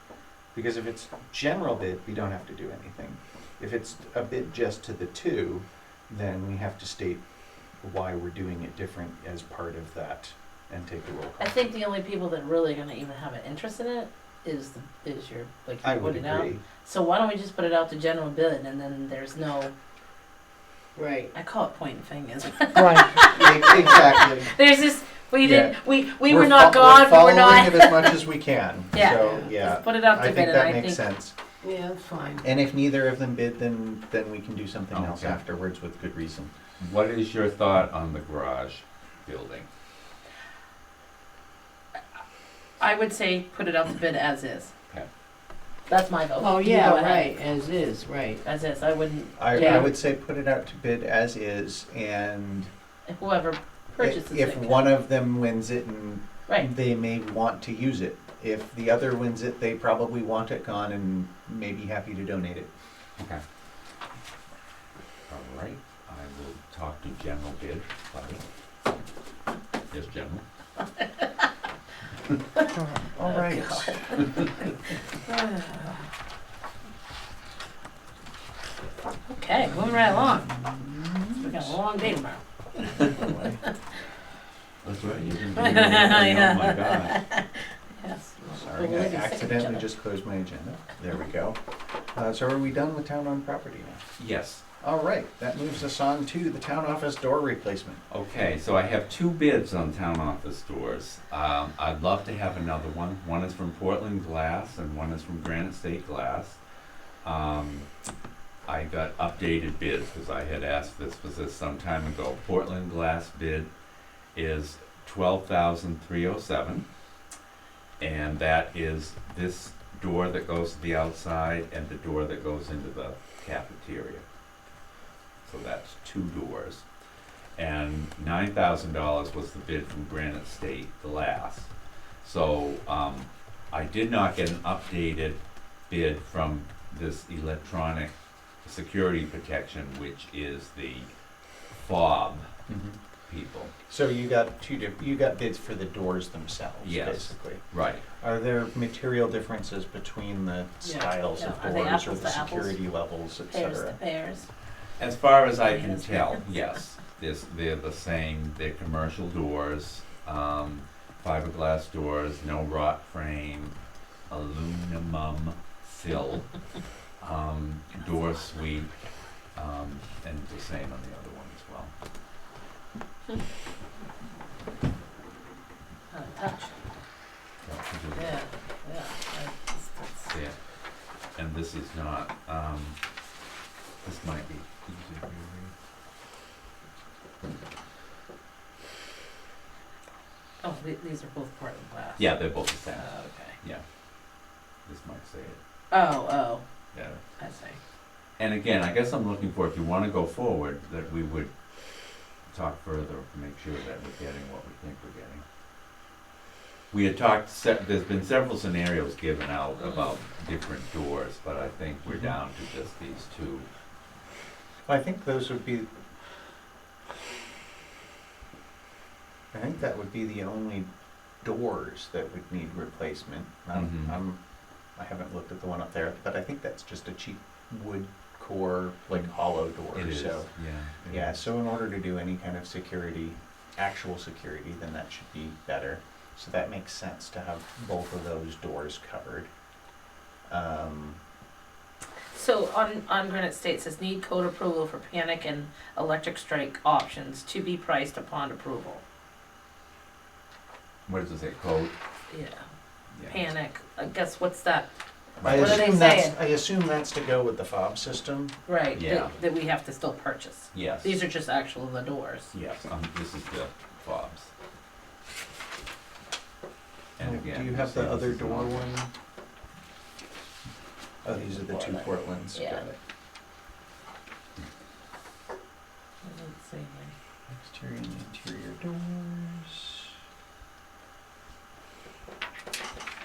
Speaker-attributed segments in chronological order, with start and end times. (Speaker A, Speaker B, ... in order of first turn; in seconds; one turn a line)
Speaker A: 0.5-7.2
Speaker A: 7.8-11.7
Speaker B: 11.4-19.7
Speaker A: 15.8-16.6
Speaker C: 20.9-21.3
Speaker B: 21.3-28.2
Speaker A: 23.0-24.5
Speaker A: 25.4-31.3
Speaker B: 28.9-31.0
Speaker C: 31.6-32.5
Speaker A: 32.4-36.5
Speaker D: 34.9-35.4
Speaker D: 36.8-39.7
Speaker B: 42.8-44.7
Speaker B: 45.9-47.4
Speaker C: 46.4-48.4
Speaker B: 48.4-49.9
Speaker A: 49.4-52.7
Speaker C: 49.5-49.8
Speaker B: 53.1-54.9
Speaker A: 54.0-62.7
Speaker D: 63.2-63.4
Speaker D: 65.3-68.4
Speaker D: 69.9-70.4
Speaker A: 72.7-74.2
Speaker B: 73.2-74.8
Speaker B: 75.3-76.0
Speaker B: 79.3-80.6
Speaker A: 80.4-81.5
Speaker B: 81.3-83.2
Speaker A: 83.0-83.6
Speaker D: 84.8-87.2
Speaker B: 85.6-87.5
Speaker B: 88.0-89.9
Speaker A: 88.5-91.6
Speaker A: 92.1-94.0
Speaker D: 94.2-94.6
Speaker A: 94.8-98.0
Speaker D: 98.1-106.6
Speaker D: 107.2-107.9
Speaker D: 108.7-113.7
Speaker D: 114.3-116.8
Speaker D: 118.0-124.2
Speaker D: 125.4-126.8
Speaker D: 127.6-131.7
Speaker D: 132.2-138.1
Speaker D: 138.6-141.1
Speaker D: 141.7-142.5
Speaker A: 142.7-143.0
Speaker D: 143.3-143.7
Speaker A: 143.9-147.6
Speaker D: 146.8-148.0
Speaker A: 148.2-154.0
Speaker B: 150.8-152.8
Speaker B: 153.5-154.5
Speaker D: 155.0-163.8
Speaker B: 155.6-156.4
Speaker D: 164.3-166.5
Speaker D: 167.2-168.9
Speaker D: 169.6-171.9
Speaker B: 176.1-176.7
Speaker D: 177.6-178.4
Speaker B: 178.2-180.3
Speaker D: 180.3-180.6
Speaker D: 181.3-183.0
Speaker D: 184.0-185.7
Speaker B: 190.6-192.4
Speaker D: 192.2-193.1
Speaker B: 192.9-193.6
Speaker D: 194.9-195.6
Speaker B: 195.9-196.6
Speaker D: 196.9-197.2
Speaker B: 197.4-197.8
Speaker D: 198.4-201.5
Speaker D: 202.5-205.4
Speaker D: 206.9-213.7
Speaker A: 212.1-212.3
Speaker A: 214.9-215.9
Speaker A: 219.5-220.9
Speaker A: 221.4-224.4
Speaker D: 223.7-224.2
Speaker A: 225.0-230.5
Speaker D: 229.9-231.4
Speaker A: 231.1-239.5
Speaker A: 240.5-241.2
Speaker B: 242.3-249.0
Speaker D: 251.1-251.9
Speaker B: 252.3-252.6
Speaker B: 253.2-254.9
Speaker D: 255.4-255.9
Speaker A: 255.4-258.6
Speaker B: 255.5-256.4
Speaker B: 258.7-262.5
Speaker D: 258.9-259.3
Speaker D: 260.7-261.2
Speaker D: 262.5-264.5
Speaker D: 267.2-268.9
Speaker A: 267.2-269.1
Speaker A: 271.2-273.0
Speaker B: 271.6-272.8
Speaker B: 276.2-277.1
Speaker A: 277.5-280.1